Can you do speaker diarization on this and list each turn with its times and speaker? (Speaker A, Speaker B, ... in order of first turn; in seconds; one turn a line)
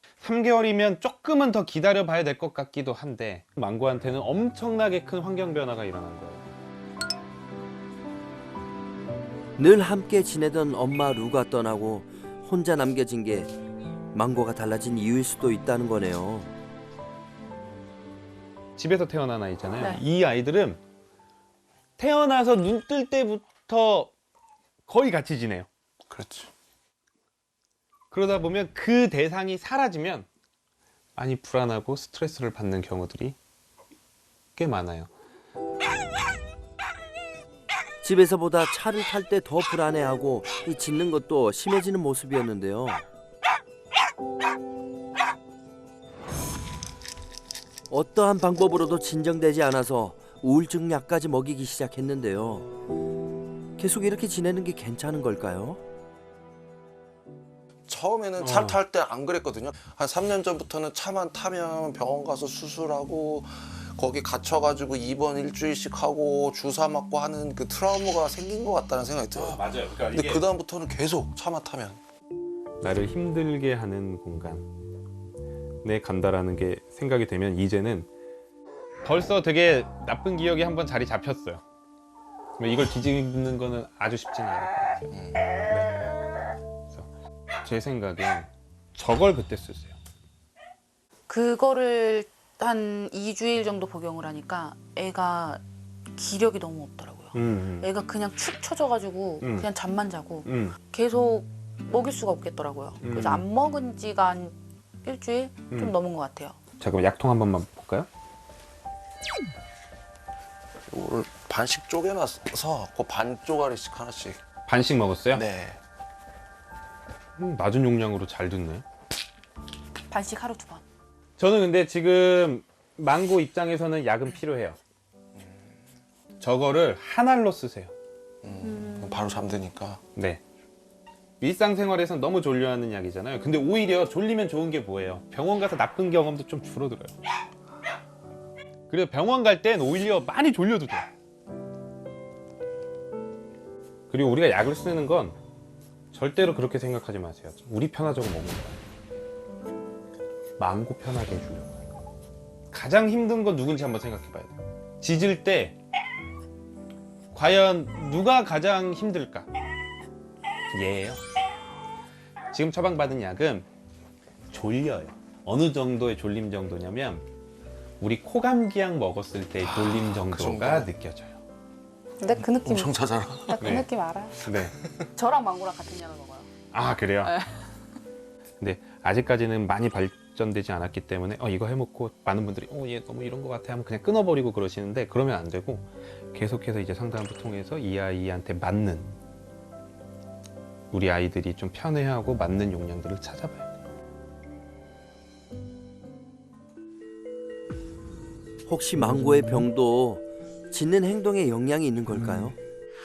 Speaker A: 0.2-6.5
Speaker B: 9.6-13.5
Speaker B: 14.1-16.5
Speaker A: 18.8-20.8
Speaker A: 22.0-24.1
Speaker A: 24.9-25.7
Speaker C: 26.1-26.5
Speaker A: 28.1-30.3
Speaker A: 31.2-33.4
Speaker A: 34.6-35.1
Speaker B: 38.0-43.0
Speaker B: 47.9-52.7
Speaker B: 53.8-55.8
Speaker C: 57.9-72.0
Speaker A: 58.4-58.8
Speaker A: 69.3-70.4
Speaker A: 72.8-74.7
Speaker A: 75.8-78.1
Speaker A: 79.0-81.6
Speaker A: 82.6-85.0
Speaker C: 85.1-85.5
Speaker A: 85.7-86.0
Speaker A: 87.6-90.0
Speaker D: 91.3-95.6
Speaker D: 96.2-106.6
Speaker A: 97.3-97.9
Speaker A: 99.4-99.7
Speaker A: 100.5-100.8
Speaker A: 103.0-103.5
Speaker A: 105.7-106.0
Speaker A: 106.8-108.1
Speaker C: 110.9-114.4
Speaker A: 114.7-115.4
Speaker C: 115.3-115.8
Speaker A: 117.4-118.8
Speaker D: 120.1-120.8
Speaker A: 121.4-124.8
Speaker C: 125.4-125.8
Speaker A: 126.4-127.9
Speaker C: 128.4-130.0
Speaker D: 128.6-129.2
Speaker A: 130.2-130.4
Speaker A: 131.4-137.2
Speaker A: 138.9-141.1
Speaker A: 144.1-145.4
Speaker A: 146.1-148.8
Speaker A: 150.6-151.8
Speaker A: 152.7-155.8
Speaker A: 157.3-159.5
Speaker A: 160.7-161.2
Speaker A: 162.5-163.7
Speaker A: 164.5-167.2
Speaker A: 168.0-171.4
Speaker C: 169.6-170.9
Speaker D: 172.2-172.9
Speaker C: 172.4-173.8
Speaker D: 173.5-174.4
Speaker A: 173.6-173.9
Speaker A: 174.4-174.8
Speaker C: 174.6-175.1
Speaker D: 175.2-176.5
Speaker A: 176.7-177.3
Speaker D: 177.2-177.7
Speaker A: 178.6-189.1
Speaker A: 190.9-193.7
Speaker B: 198.7-202.6